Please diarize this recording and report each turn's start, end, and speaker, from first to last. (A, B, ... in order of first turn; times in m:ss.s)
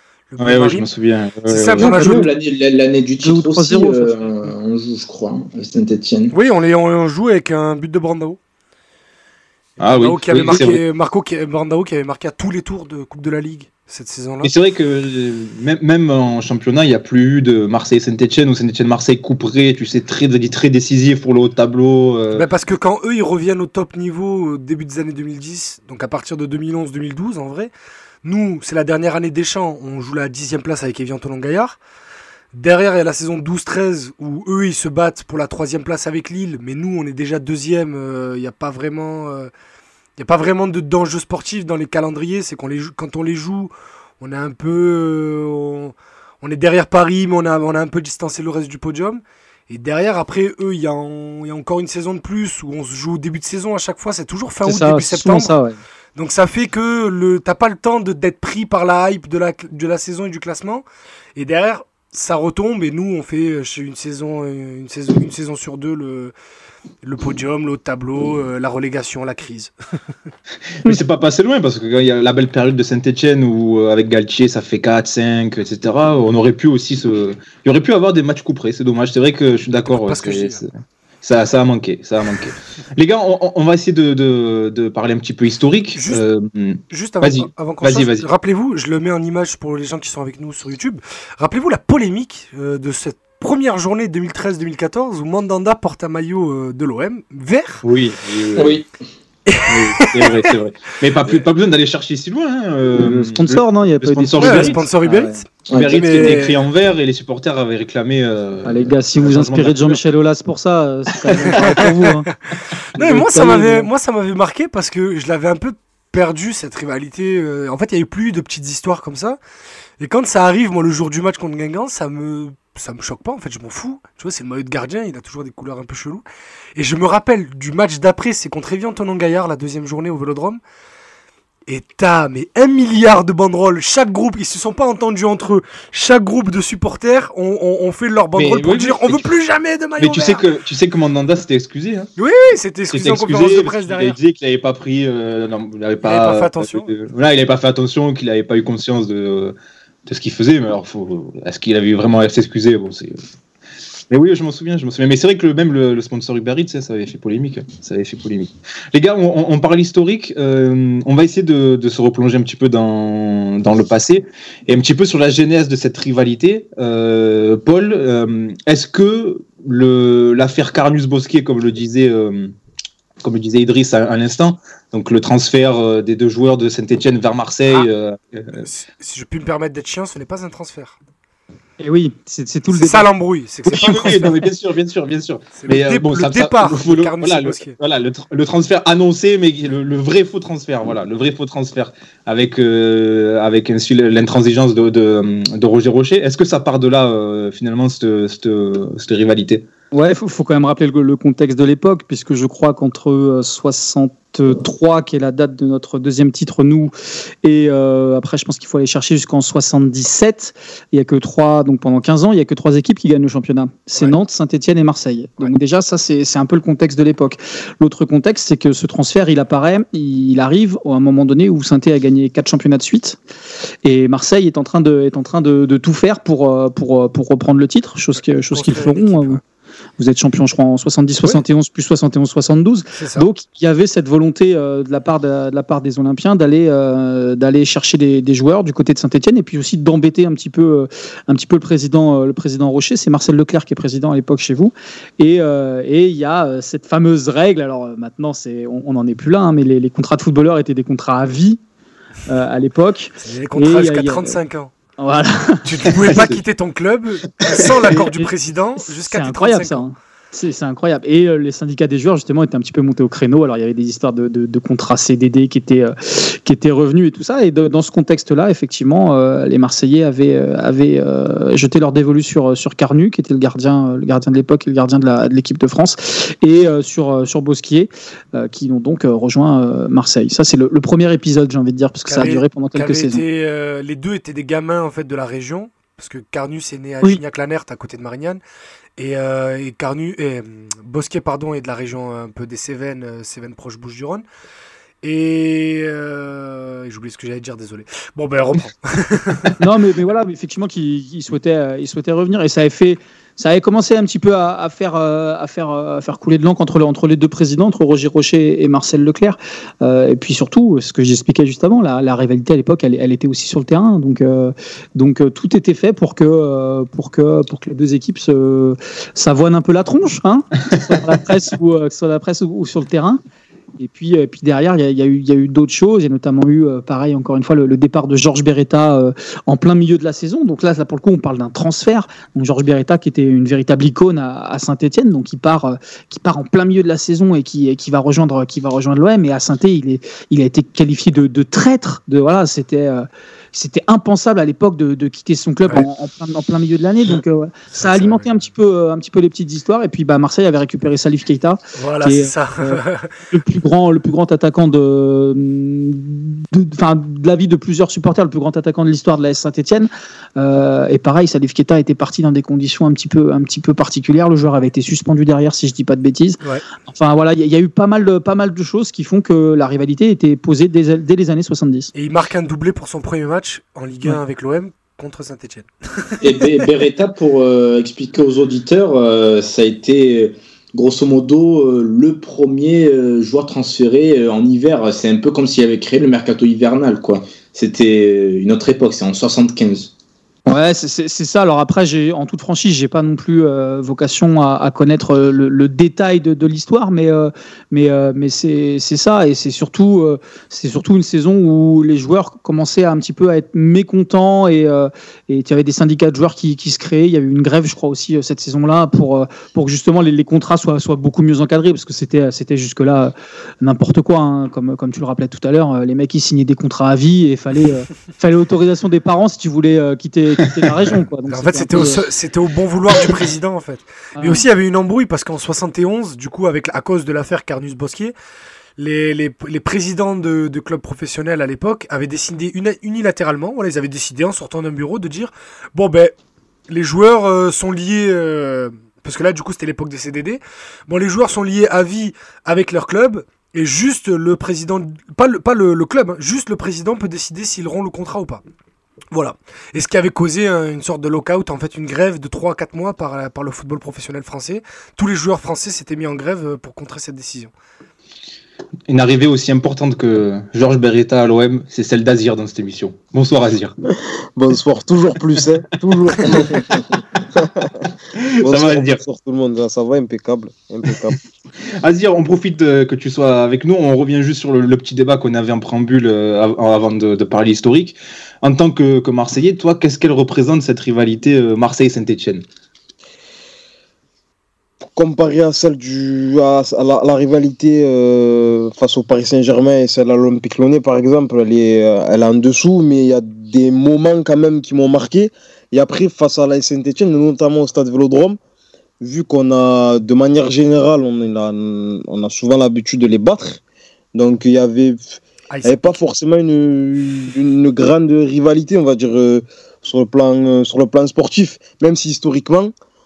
0:00.3-0:00.9 A
0:00.4-0:02.2 B
0:01.5-0:02.3 A
0:01.7-0:06.3 C
0:03.2-0:04.2 D
0:06.3-0:08.4 A
0:09.8-0:10.8 B
0:09.8-0:14.5 A
0:14.4-0:22.4 B
0:22.3-0:27.7 A
0:28.2-0:31.8 A
0:32.5-0:39.5 A
0:40.2-0:55.5 A
0:54.6-0:55.8 D
0:56.2-1:00.8 A
1:01.4-1:06.3 A
1:07.0-1:09.7 A
1:10.8-1:20.7 B
1:19.8-1:20.6 A
1:21.2-1:28.2 B
1:25.9-1:26.2 A
1:26.9-1:37.8 A
1:37.8-1:38.8 B
1:38.6-1:38.9 C
1:39.5-1:40.5 A
1:39.7-1:44.9 B
1:43.0-1:44.8 D
1:44.4-1:45.4 A
1:45.0-1:46.4 C
1:45.7-1:50.0 B
1:46.0-1:46.6 A
1:48.6-1:52.3 D
1:51.6-1:59.4 A
1:53.0-1:53.9 D
2:00.0-2:06.2 A
2:06.8-2:10.6 A
2:11.7-2:20.4 A
2:18.4-2:19.3 B
2:20.0-2:22.1 B
2:22.2-2:24.2 A
2:22.9-2:29.5 B
2:26.0-2:26.9 A
2:30.0-2:33.2 B
2:34.1-2:52.5 B
2:53.2-2:58.6 B
2:58.6-3:01.0 A
3:01.8-3:03.1 D
3:02.7-3:04.4 A
3:03.6-3:19.6 B
3:05.6-3:07.8 A
3:19.9-3:26.9 D
3:27.4-3:43.2 D
3:43.8-3:49.4 D
3:48.5-3:49.4 A
3:50.0-4:11.6 D
3:53.0-3:53.3 A
4:12.3-4:14.4 D
4:13.2-4:14.7 A
4:15.0-4:15.6 D
4:15.6-4:19.8 A
4:16.0-4:16.4 B
4:17.4-4:17.7 B
4:17.9-4:18.3 D
4:18.8-4:43.2 D
4:42.1-4:48.4 A
4:49.0-4:54.2 A
4:55.0-4:59.6 A
4:59.6-5:23.2 D
5:23.8-6:11.9 D
5:47.8-5:48.3 A
5:51.8-5:53.1 A
6:11.9-6:16.5 A
6:16.2-6:29.9 C
6:30.5-7:02.0 D
7:01.3-7:08.1 A
7:04.2-7:04.4 D
7:08.8-7:16.1 A
7:16.7-7:28.4 A
7:29.1-7:37.5 A
7:38.9-7:43.7 B
7:44.4-7:46.8 E
7:47.4-7:47.7 E
7:48.1-7:49.0 B
7:48.4-7:51.2 E
7:50.9-7:51.1 B
7:51.8-8:02.4 B
8:05.0-8:18.4 E
8:19.0-8:23.6 E
8:24.1-8:32.7 E
8:25.5-8:26.0 A